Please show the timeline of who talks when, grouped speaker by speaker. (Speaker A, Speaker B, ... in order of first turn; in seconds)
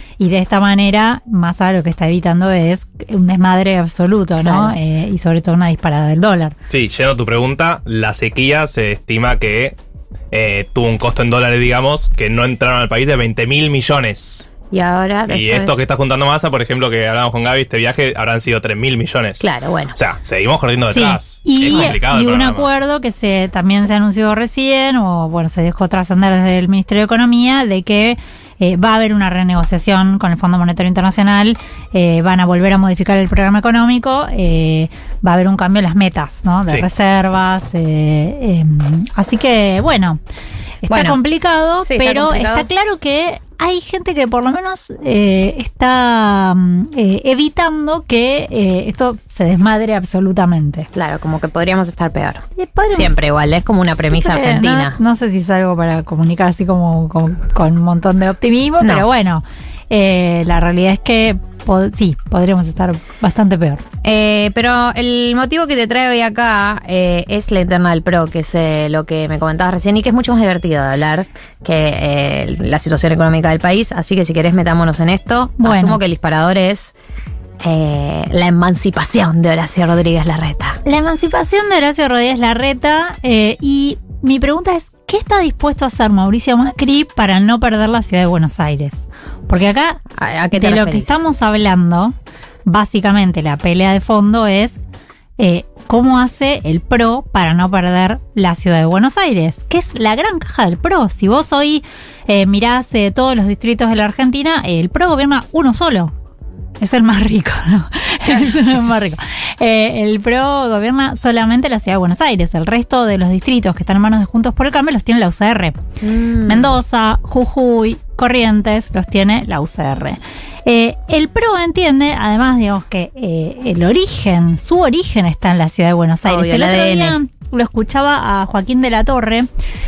Speaker A: 0.2-6.5, 20.9-40.2, 40.9-50.9, 52.5-53.1, 54.1-63.8, 75.6-76.0, 80.8-90.0, 90.5-92.1, 92.7-94.8, 95.4-106.1, 106.8-115.8, 116.5-129.5
Speaker B: 4.4-4.8, 14.7-15.8, 19.4-20.0, 40.9-41.2, 41.8-42.7, 50.9-55.0, 58.8-59.0, 64.0-76.9, 77.6-80.8, 90.2-91.2, 116.0-116.7, 126.2-127.2
Speaker C: 6.7-9.8, 10.3-14.5, 15.3-22.7